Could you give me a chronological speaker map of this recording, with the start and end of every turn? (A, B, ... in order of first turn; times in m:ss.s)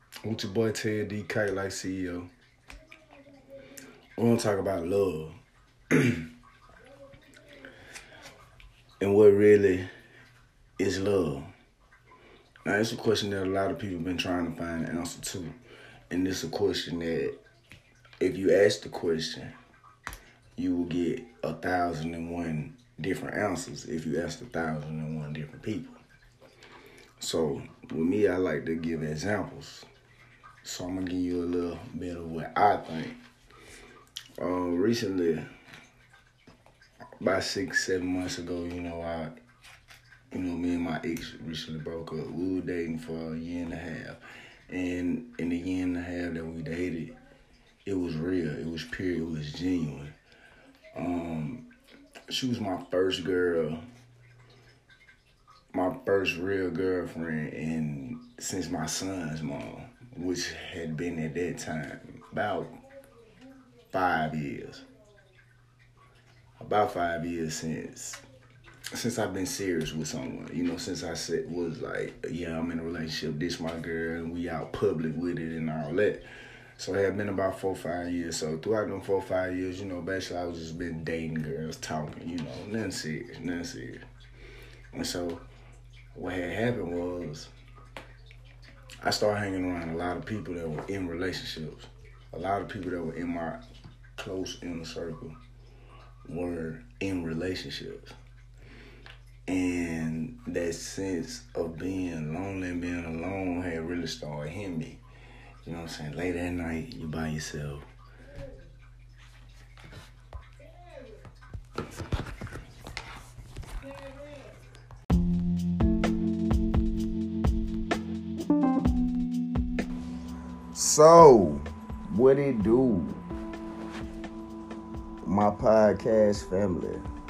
0:00.2-0:02.3 A
0:04.2-0:05.3 A
0:05.9-0:06.3 A
0:09.0-0:09.9 A
0:10.8-0:11.5 A
0:12.6-0:15.5 A
0:16.1-0:17.4 A
0:18.2-0:19.5 A
0:20.6-0:26.0 A
0:27.2-0:29.8 A
0:30.6-0:33.2 A
0:34.4-0:35.4 A
0:37.2-0:39.3 A
0:40.3-0:47.1 A
0:47.8-0:50.1 A
0:50.9-0:51.7 A
0:52.3-0:53.8 A
0:55.7-1:02.7 A
1:03.9-1:04.8 A
1:06.6-1:08.2 A
1:08.9-1:16.3 A
1:16.8-1:24.0 A
1:24.9-1:25.4 A
1:26.1-1:27.5 A
1:29.0-1:33.6 A
1:34.2-1:35.4 A
1:36.2-1:38.1 A
1:39.5-1:45.0 A
1:45.6-1:47.8 A
2:00.7-2:03.2 A
2:05.2-2:07.0 A